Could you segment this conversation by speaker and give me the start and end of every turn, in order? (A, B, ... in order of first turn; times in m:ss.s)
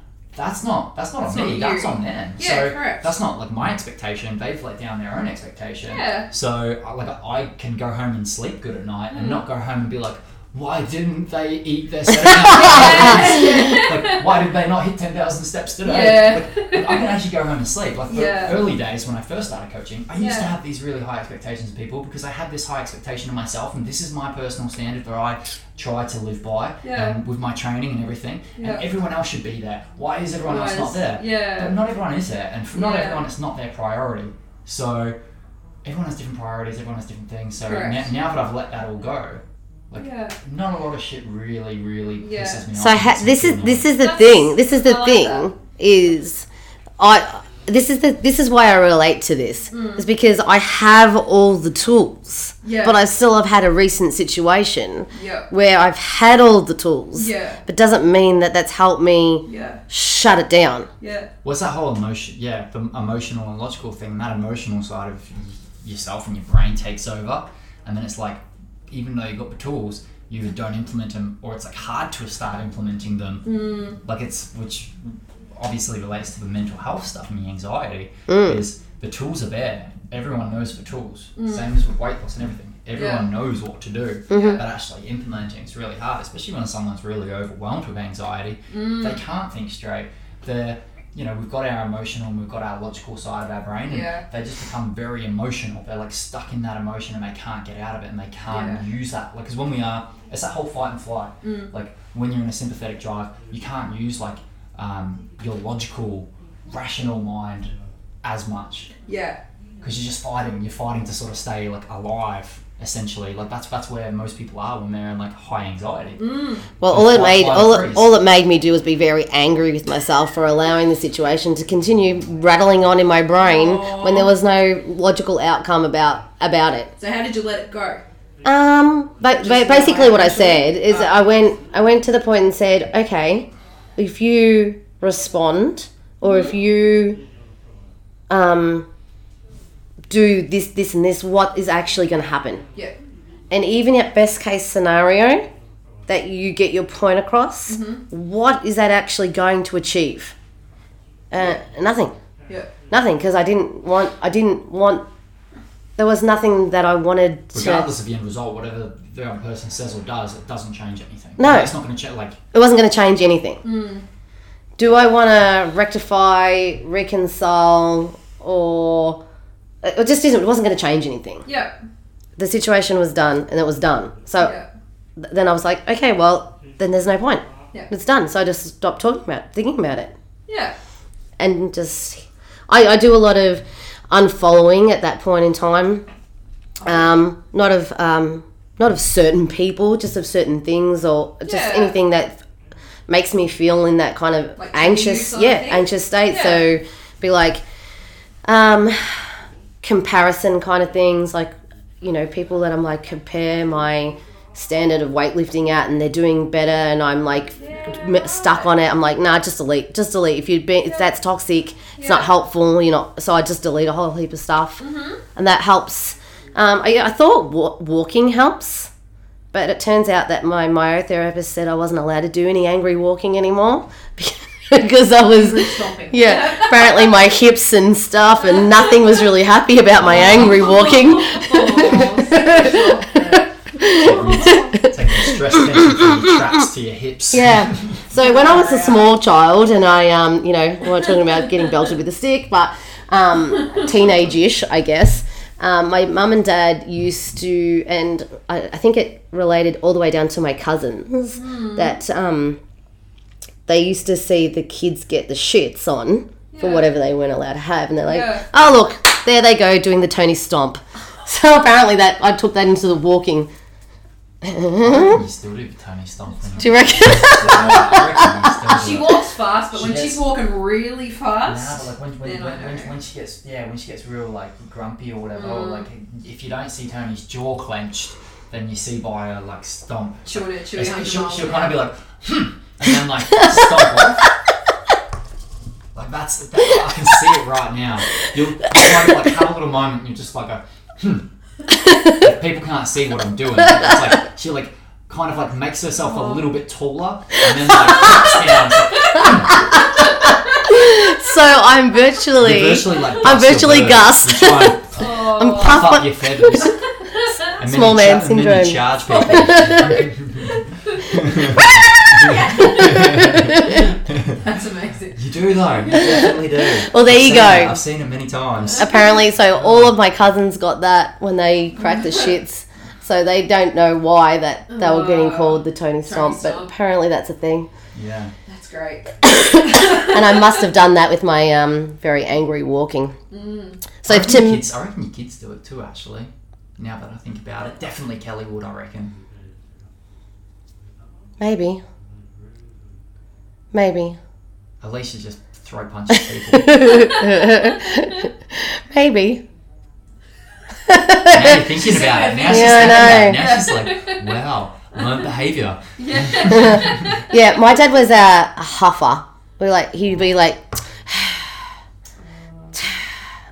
0:00.3-0:35.2 A
0:01.2-0:03.1 B
0:05.9-0:06.3 B
0:09.1-0:09.4 B
0:12.4-0:14.4 B
0:15.8-0:17.1 B
0:18.1-0:18.6 B
0:20.2-0:20.5 B
0:26.8-0:27.2 B
0:28.6-0:28.8 B
0:30.5-0:31.8 B
0:32.7-0:33.3 B
0:35.8-0:43.9 A
0:37.7-0:38.0 B
0:40.0-0:40.4 B
0:42.2-0:42.7 B
0:42.7-0:46.5 C
0:44.0-0:45.5 B
0:47.0-1:00.9 C
0:49.7-0:50.1 B
0:52.6-0:53.0 B
0:55.1-0:55.5 B
0:57.2-0:57.6 B
0:59.5-0:59.8 B
1:01.0-1:01.3 B
1:01.4-1:47.7 A
1:13.5-1:14.0 B
1:18.3-1:18.6 C
1:21.4-1:21.7 B
1:23.0-1:23.3 B
1:24.3-1:24.6 C
1:24.3-1:24.6 B
1:28.7-1:29.2 B
1:33.9-1:34.2 B
1:38.5-1:38.8 B
1:41.4-1:41.7 B
1:48.2-1:48.9 A
1:49.1-1:49.4 B
1:49.8-1:56.3 A
1:56.2-1:56.7 B
1:56.8-2:06.9 C
1:56.8-1:58.1 A
2:03.4-2:04.3 B
2:07.0-2:08.0 B
2:08.4-2:17.2 C
2:09.4-2:11.1 B
2:18.3-2:18.9 C
2:20.1-2:22.6 C
2:23.5-2:25.5 C
2:26.1-2:30.4 C
2:27.7-2:28.0 B
2:31.3-2:32.1 C
2:32.9-2:35.0 C
2:36.0-2:37.9 C
2:37.5-2:42.4 A
2:41.4-2:41.7 C
2:42.5-2:43.6 C
2:43.6-2:44.0 B
2:44.8-2:49.2 C
2:49.8-2:51.4 C
2:51.5-2:51.8 B
2:52.4-2:54.6 C
2:54.4-2:54.7 B
2:55.2-3:00.1 C
3:00.5-3:00.8 B
3:01.4-3:06.0 C
3:06.8-3:07.1 B
3:06.8-3:12.4 C
3:11.4-3:12.0 B
3:13.1-3:17.6 C
3:14.6-3:16.6 B
3:18.4-3:34.8 C
3:27.6-3:28.7 B
3:32.0-3:32.3 B
3:34.8-3:35.2 B
3:35.4-3:38.9 C
3:39.5-3:56.4 C
3:45.2-3:47.1 B
3:48.5-3:49.1 B
3:50.0-3:50.6 A
3:50.3-3:54.7 B
3:53.9-3:58.0 A
3:57.3-4:12.6 C
3:58.2-3:59.1 B
4:11.4-4:11.9 B
4:13.7-4:23.5 C
4:16.5-4:16.9 B
4:18.1-4:18.5 B
4:24.4-4:25.2 C
4:24.8-4:29.2 A
4:26.6-4:28.6 C
4:27.4-4:27.8 B
4:28.6-4:33.0 B
4:29.7-4:30.2 A
4:31.4-4:44.3 A
4:35.3-4:35.8 B
4:40.3-4:41.8 B
4:43.4-4:43.7 C
4:46.0-4:51.3 A
4:51.8-4:52.1 C
4:52.1-4:59.7 A
4:56.0-4:56.5 B
4:59.2-5:06.7 C
5:02.4-5:06.8 A
5:05.0-5:06.0 B
5:07.6-5:14.5 A
5:07.6-5:10.1 C
5:12.3-5:13.9 C
5:12.3-5:13.6 B
5:14.3-5:15.7 B
5:15.1-5:18.9 A
5:16.0-5:17.8 C
5:18.8-5:27.7 C
5:19.6-5:20.0 A
5:22.0-5:22.3 B
5:24.7-5:26.7 B
5:27.9-5:28.3 A
5:28.5-5:30.5 B
5:29.3-5:33.2 C
5:33.3-5:33.8 B
5:34.0-5:34.6 C
5:34.1-5:39.1 A
5:41.4-5:41.8 C
5:43.7-5:44.2 C
5:44.8-5:47.1 A
5:46.5-5:49.4 C
5:46.9-5:47.6 B
5:50.8-5:51.8 C
5:51.3-5:57.2 A
5:51.7-5:54.4 B
5:52.5-5:53.4 C
5:56.0-5:57.5 B
5:56.5-6:01.6 C
6:02.8-6:03.0 C